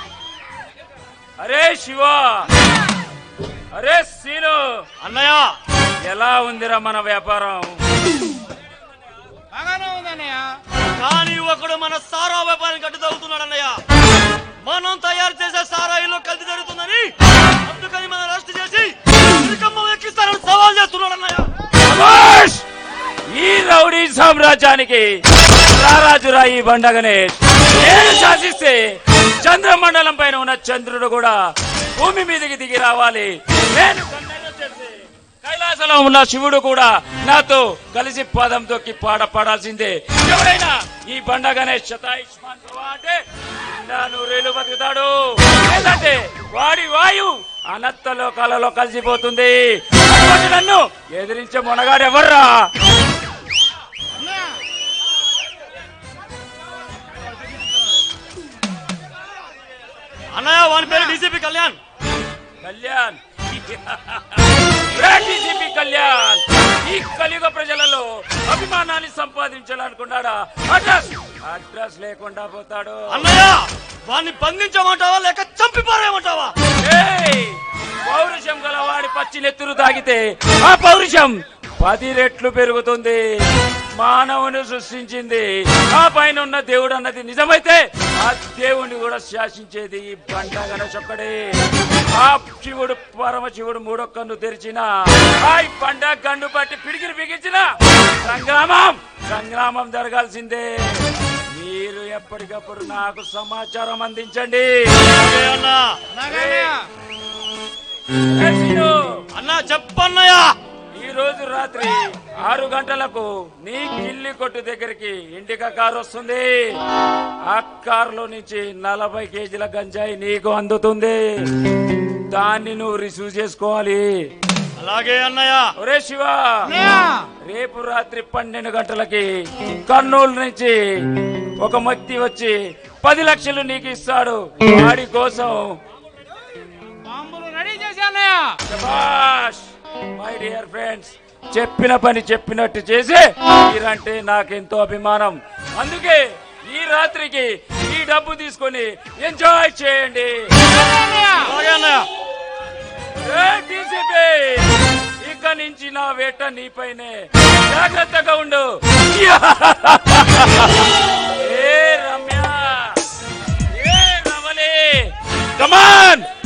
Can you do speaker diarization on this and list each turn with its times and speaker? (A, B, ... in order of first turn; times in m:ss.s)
0:01.4-0:02.5 A
0:03.7-0:04.9 A
0:05.0-0:05.6 B
0:06.1-0:07.8 A
0:09.5-0:10.6 C
0:10.9-0:13.8 B
0:14.6-0:21.5 B
0:21.8-0:22.6 A
0:23.3-0:31.4 A
0:31.9-0:52.7 A
1:00.3-1:01.8 B
1:02.6-1:13.2 A
1:13.1-1:16.5 B
1:16.8-1:23.3 A
1:23.9-1:45.1 A
1:45.1-1:46.1 B
1:46.1-1:46.8 C
1:46.2-1:46.7 A
1:48.2-1:49.1 A
1:49.3-1:50.5 B
1:50.9-1:56.8 A
1:57.5-2:01.2 A
2:02.3-2:04.2 A
2:04.8-2:05.7 B
2:05.8-2:06.8 A
2:06.7-2:07.2 C
2:07.4-2:09.3 A
2:09.8-2:11.0 A
2:11.6-2:15.8 A
2:17.0-2:18.6 C
2:18.6-2:30.5 A
2:31.0-2:31.3 C
2:31.3-2:32.1 B
2:33.1-2:43.0 A
2:43.7-2:46.3 A